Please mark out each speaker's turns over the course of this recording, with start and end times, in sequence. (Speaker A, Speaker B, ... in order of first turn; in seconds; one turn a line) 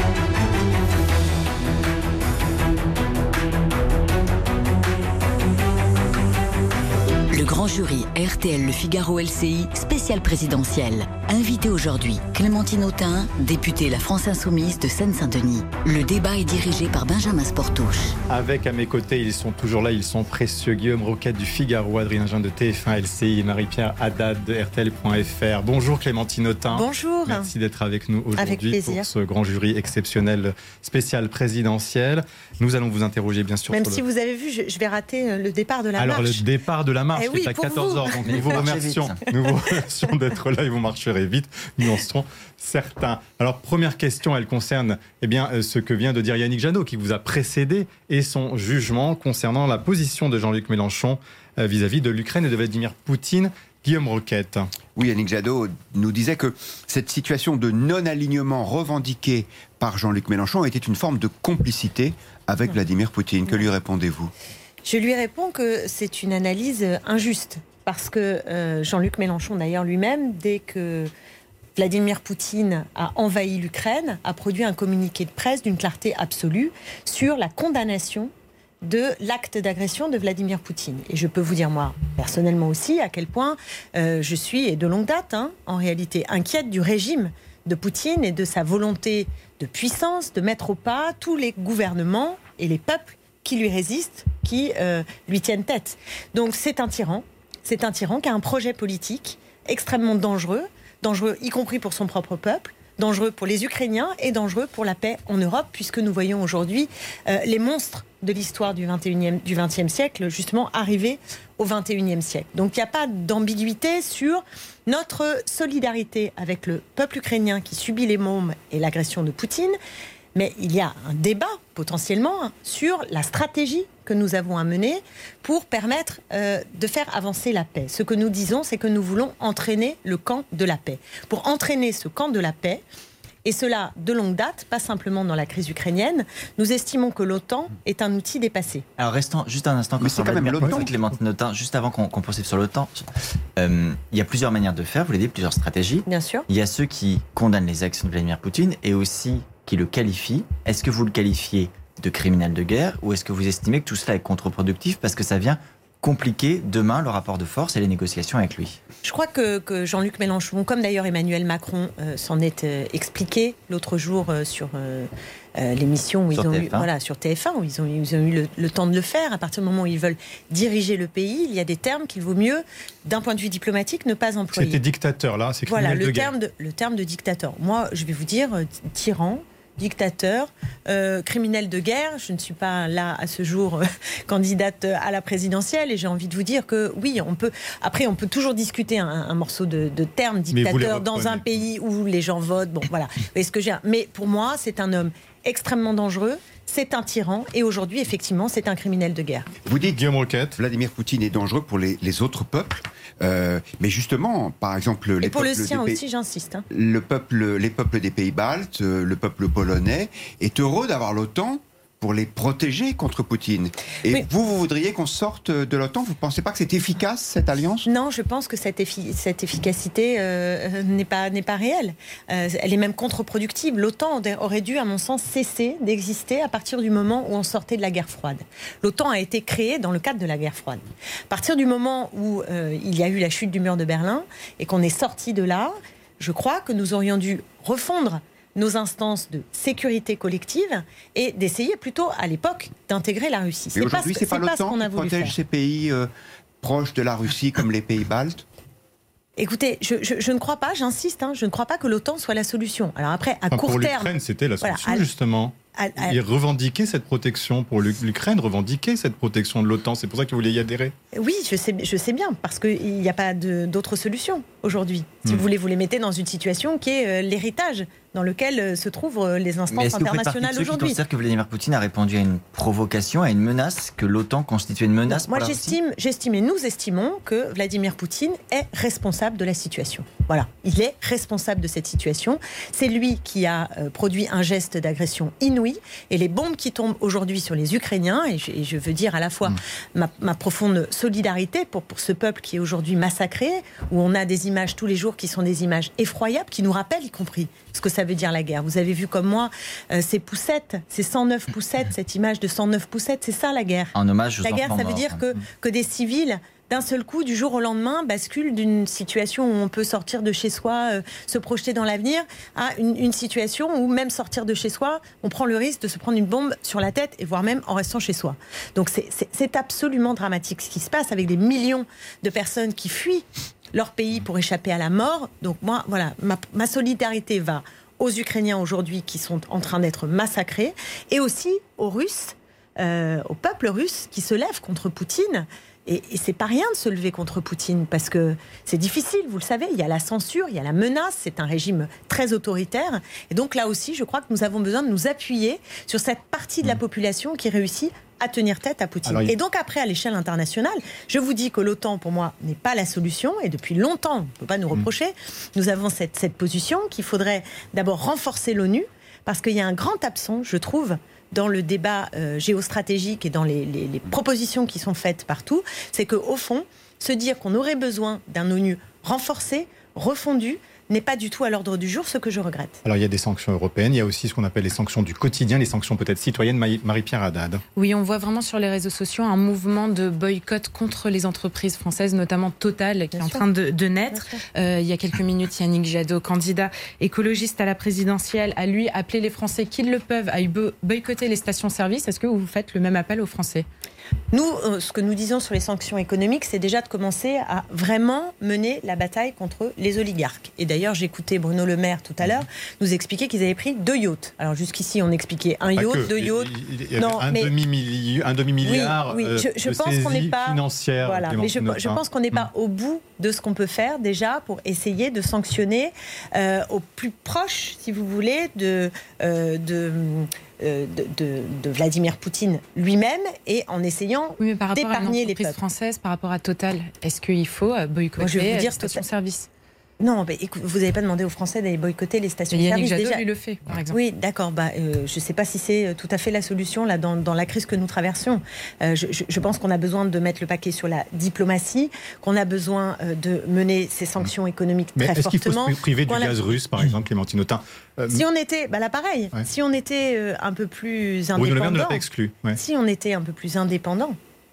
Speaker A: 7.3-18.2
Speaker B: 18.3-34.0
Speaker C: 26.7-27.5
Speaker C: 28.4-29.1
Speaker C: 33.7-36.4
Speaker B: 36.0-54.7
Speaker C: 37.1-38.8
Speaker D: 38.1-39.2
Speaker C: 39.5-39.8
Speaker E: 54.9-64.3
Speaker C: 64.8-71.1
Speaker C: 71.8-78.3
Speaker C: 78.8-119.8
Speaker C: 120.3-132.8
Speaker C: 133.4-138.8
Speaker D: 139.0-143.0
Speaker E: 140.0-140.9
Speaker B: 140.6-140.8
Speaker D: 143.6-158.8
Speaker C: 146.1-146.4
Speaker C: 159.0-174.8
Speaker D: 166.3-166.9
Speaker B: 174.5-176.3
Speaker C: 175.7-199.5
Speaker B: 190.5-191.4
Speaker E: 199.7-200.0
Speaker B: 199.8-200.6
Speaker E: 200.6-206.0
Speaker C: 205.2-206.7
Speaker E: 206.7-217.9
Speaker C: 217.8-245.3
Speaker E: 243.7-246.1
Speaker E: 246.6-248.4
Speaker C: 249.4-255.1
Speaker B: 253.5-260.9
Speaker C: 255.7-256.1
Speaker C: 261.1-271.0
Speaker D: 269.7-275.8
Speaker C: 275.1-372.8
Speaker D: 303.9-305.2
Speaker B: 349.1-349.3
Speaker B: 372.8-377.6
Speaker F: 377.8-393.6
Speaker C: 383.1-383.4
Speaker C: 394.3-407.5
Speaker B: 405.7-412.4
Speaker C: 408.6-425.6
Speaker F: 424.4-429.5
Speaker C: 428.2-429.0
Speaker C: 430.0-433.2
Speaker F: 432.5-434.0
Speaker C: 433.9-446.4
Speaker B: 444.9-448.2
Speaker C: 448.1-454.2
Speaker B: 451.4-452.6